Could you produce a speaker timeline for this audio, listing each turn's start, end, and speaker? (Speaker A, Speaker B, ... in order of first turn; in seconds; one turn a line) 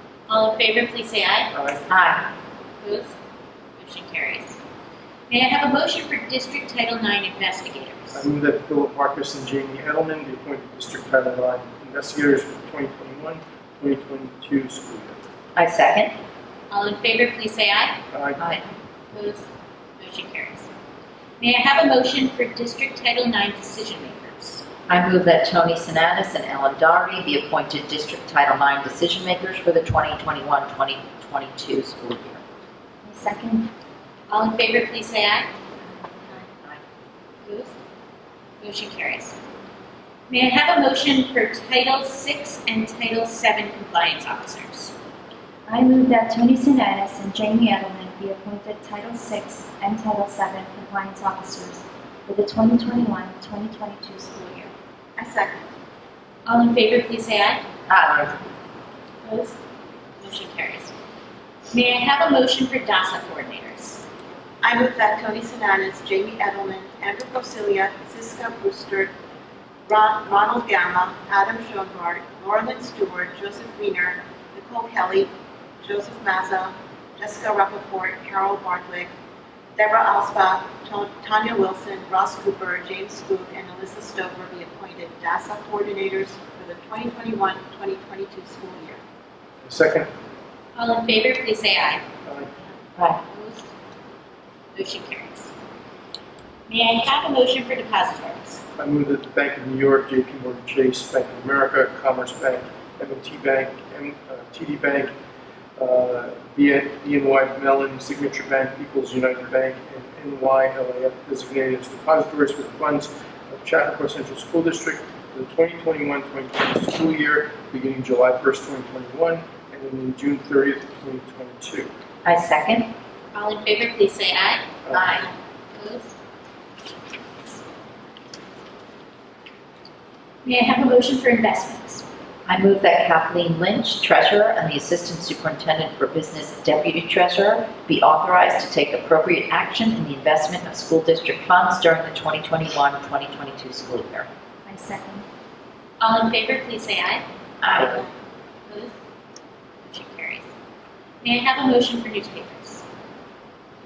Speaker A: 0.3-1.5
Speaker B: 1.5-1.8
Speaker C: 1.9-2.3
Speaker A: 2.8-3.1
Speaker A: 3.8-4.6
Speaker A: 5.3-8.2
Speaker B: 8.1-15.2
Speaker C: 15.6-16.1
Speaker A: 16.7-18.0
Speaker B: 18.1-18.4
Speaker C: 18.4-18.7
Speaker A: 19.1-19.5
Speaker A: 20.0-20.7
Speaker A: 21.4-24.6
Speaker C: 24.9-32.4
Speaker D: 33.0-33.7
Speaker A: 34.3-35.5
Speaker A: 37.4-37.8
Speaker A: 38.6-39.4
Speaker A: 40.3-44.9
Speaker D: 45.7-54.7
Speaker E: 55.2-55.7
Speaker A: 56.5-57.6
Speaker C: 57.9-58.3
Speaker A: 59.2-59.6
Speaker A: 60.2-60.9
Speaker A: 61.7-64.0
Speaker E: 64.6-69.1
Speaker E: 69.9-75.3
Speaker E: 75.8-79.1
Speaker E: 79.8-89.0
Speaker B: 89.6-90.1
Speaker A: 90.8-92.0
Speaker B: 92.2-92.5
Speaker A: 93.3-93.7
Speaker A: 94.7-95.5
Speaker A: 96.7-98.6
Speaker B: 98.8-105.1
Speaker B: 105.8-121.9
Speaker C: 122.2-122.9
Speaker A: 123.3-124.6
Speaker B: 124.9-125.2
Speaker C: 124.9-125.3
Speaker A: 125.8-126.1
Speaker A: 130.4-132.1
Speaker C: 132.5-144.3
Speaker D: 144.7-145.3
Speaker A: 146.0-147.2
Speaker C: 147.6-148.1
Speaker A: 148.7-148.9
Speaker A: 149.8-150.4
Speaker A: 151.2-152.8